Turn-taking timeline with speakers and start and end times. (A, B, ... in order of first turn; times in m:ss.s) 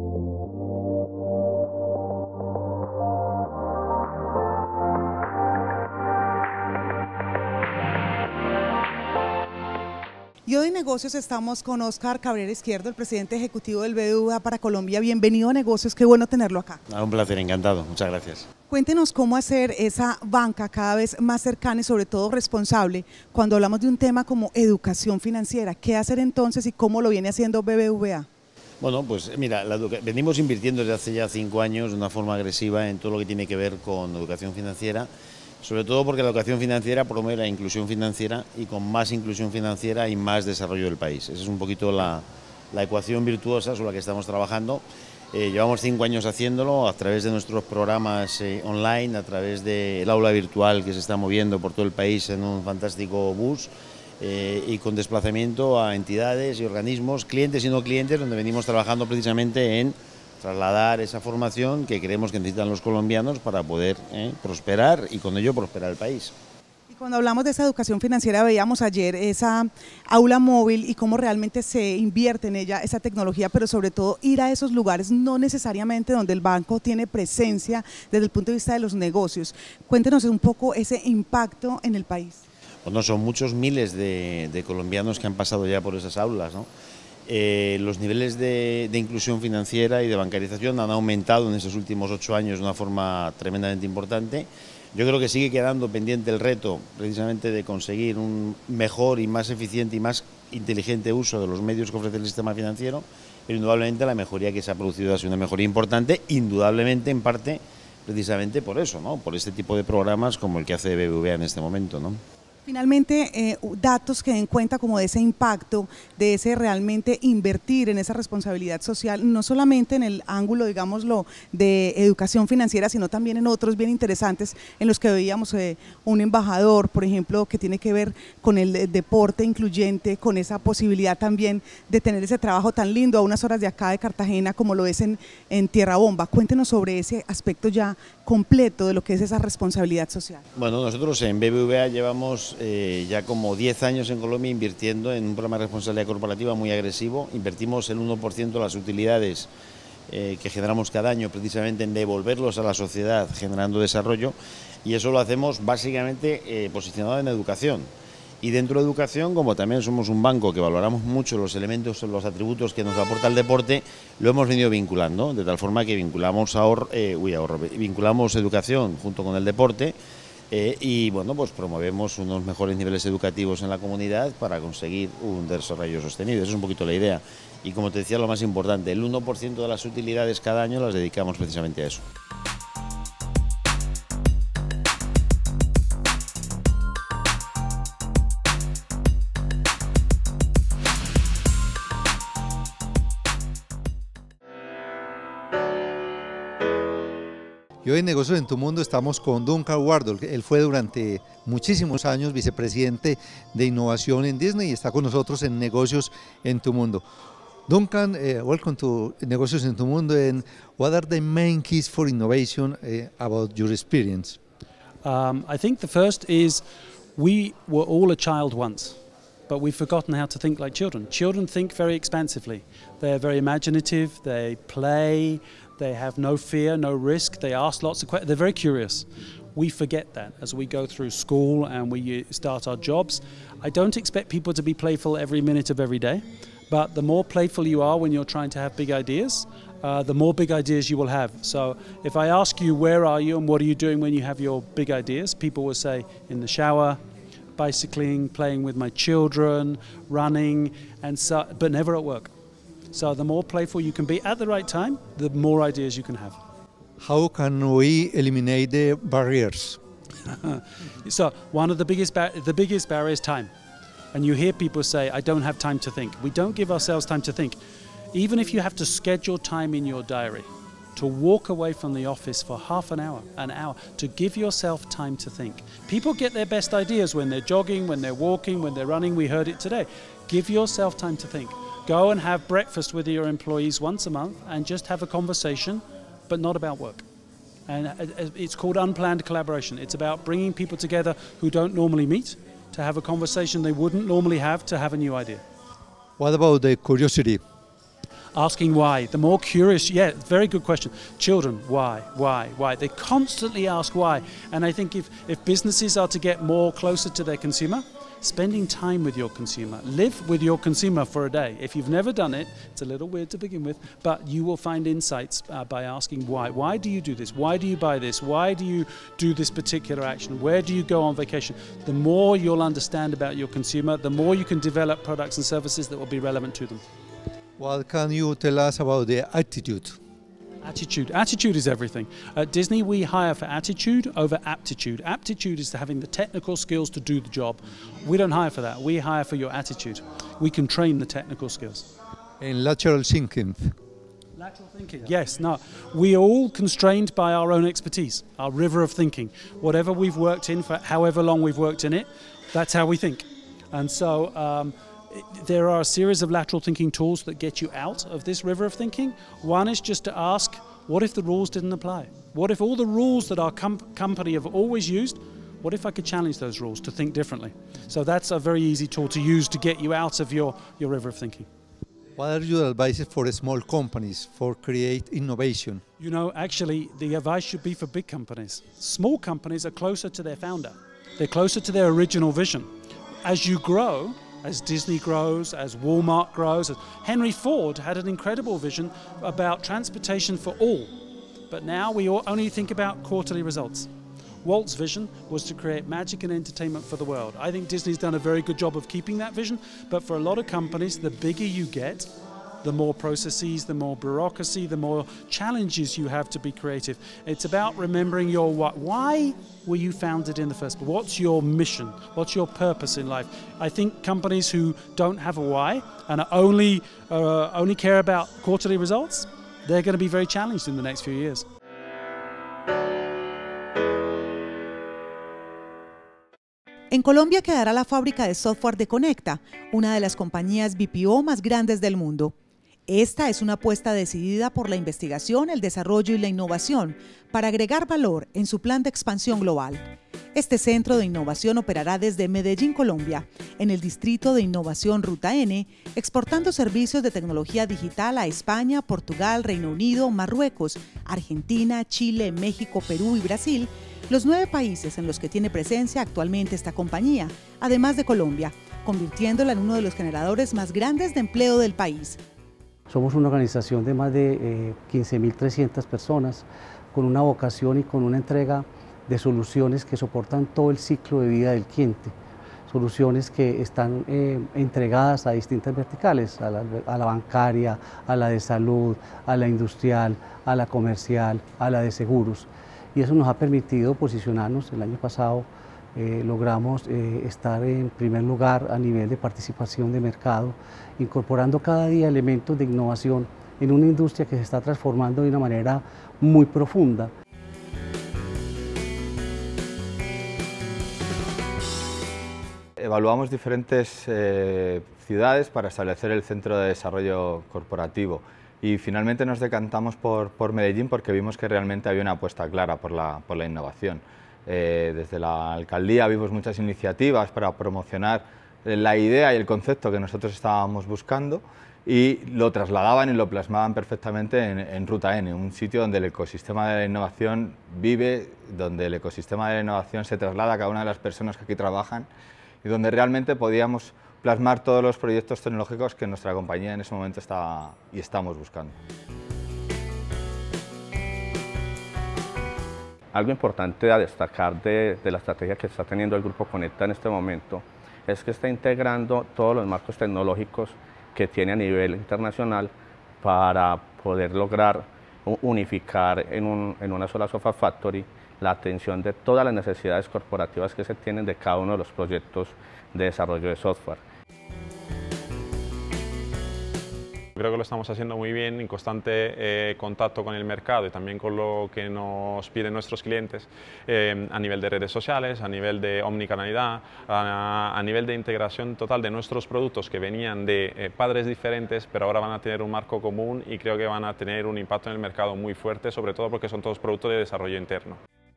0:10.5-0:16.8 A
0:16.9-0:18.5 B
0:18.7-0:28.3 A
0:28.8-0:35.1 B
0:35.6-1:06.3 B
1:06.9-1:22.4 A
1:22.8-1:26.7 B
1:27.3-1:52.2 B
1:52.7-2:20.4 A
2:20.6-2:29.5 B
2:30.1-2:37.9 B
2:38.4-2:50.0 B
2:50.5-3:02.1 B
3:17.8-3:27.0 C
3:27.7-3:34.4 C
3:35.0-3:36.6 D
3:37.2-3:39.0 D
3:39.5-4:07.0 D
4:07.6-4:12.3 D
4:12.9-4:16.4 D
4:17.0-4:19.8 C
4:20.2-4:23.5 D
4:24.1-4:27.6 D
4:28.1-4:47.0 D
4:47.7-4:55.4 D
4:56.2-4:57.4 C
4:58.3-5:26.8 D
5:27.6-5:30.0 C
5:30.6-5:41.9 D
5:42.4-5:43.8 C
5:44.4-6:11.5 D
6:12.2-6:15.8 C
6:16.0-6:22.7 D
6:23.2-6:30.9 D
6:31.5-6:33.9 D
6:34.4-6:42.1 D
6:42.6-7:01.5 D
7:06.9-7:12.4 A
7:12.9-7:42.2 A
7:42.9-7:52.1 E
7:52.7-8:17.1 E
8:22.8-8:52.1 F
8:52.6-8:58.8 F
9:03.1-9:24.0 G
9:27.4-9:48.0 H